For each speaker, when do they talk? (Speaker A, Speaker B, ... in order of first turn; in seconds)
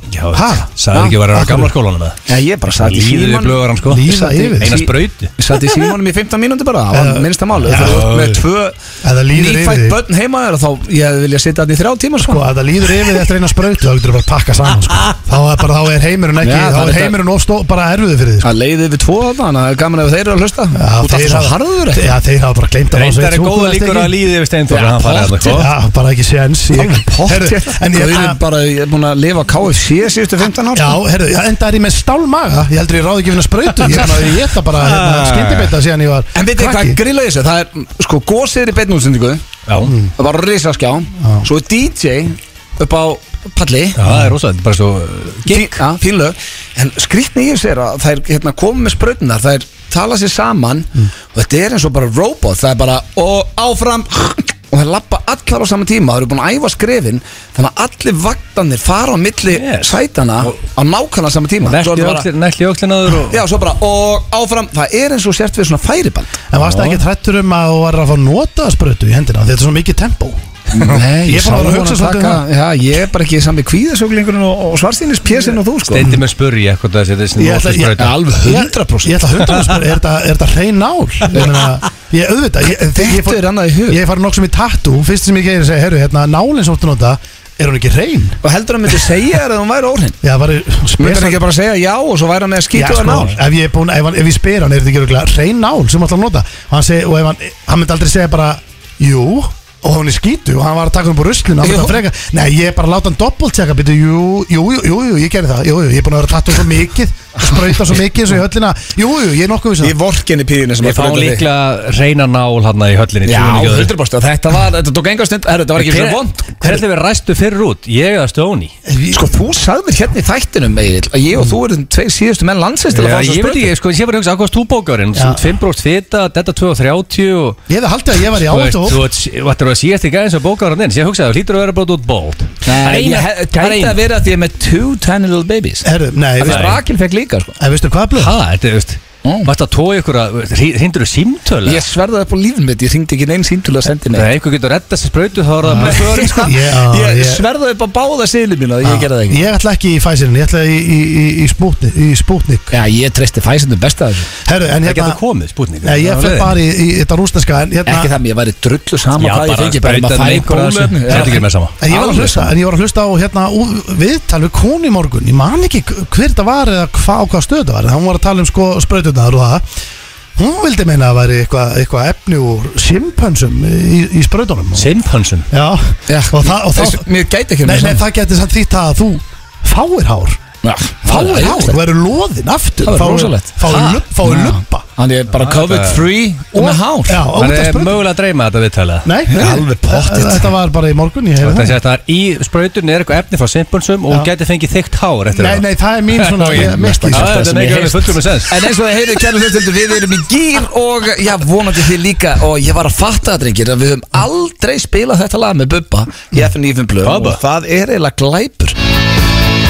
Speaker A: 0.1-5.3, 7.7-8.4, 22.9-25.7, 34.7-35.7, 39.7-40.0, 44.0-45.9, 59.5-60.5, 61.6-63.4, 66.6-67.0, 75.9-78.2, 110.8-113.9, 115.8-118.7, 122.9-127.6, 128.3-134.0, 136.4-136.8, 138.2-141.8, 144.1-146.5, 154.9-156.6, 159.2-161.8, 174.8-175.5, 183.7-184.0, 185.3-186.1, 187.4-189.1, 191.4-198.6, 207.0-207.4
Speaker B: 0.3-0.7, 1.3-1.7, 3.9-4.8, 6.9-8.2, 9.0-10.0, 12.2-18.5, 20.8-24.1, 25.5-28.4, 30.7-37.0, 39.9-40.1, 41.2-41.5, 44.1-44.3, 66.5-70.4, 71.2-72.4, 77.4-88.4, 90.2-91.4, 92.7-110.0, 118.9-119.2, 125.1-125.5, 127.7-129.0, 135.8-136.8, 137.6-138.4, 145.6-147.4, 148.8-152.7, 154.4-155.2, 155.8-158.1, 161.1-169.7, 170.4-174.9, 175.5-177.1, 177.6-180.4, 181.1-184.9, 186.6-188.0, 189.0-191.8, 195.3-197.7
Speaker C: 2.3-8.8, 9.3-12.4, 16.4-17.2, 18.4-22.1, 24.7-25.6, 26.7-31.0, 36.4-39.5, 40.2-44.0, 45.5-62.3, 63.3-66.4, 70.7-76.1, 78.0-79.2, 83.0-84.0, 88.4-90.2, 91.0-93.3, 101.6-102.0, 109.8-111.5, 113.2-116.5, 119.1-123.7, 132.7-135.9, 136.4-137.6, 139.2-139.5, 141.7-144.3, 145.7-149.4, 152.7-154.3, 157.9-162.5, 176.1-178.0, 180.6-181.8, 182.8-183.6, 184.2-187.2, 189.3-190.5, 196.5-208.8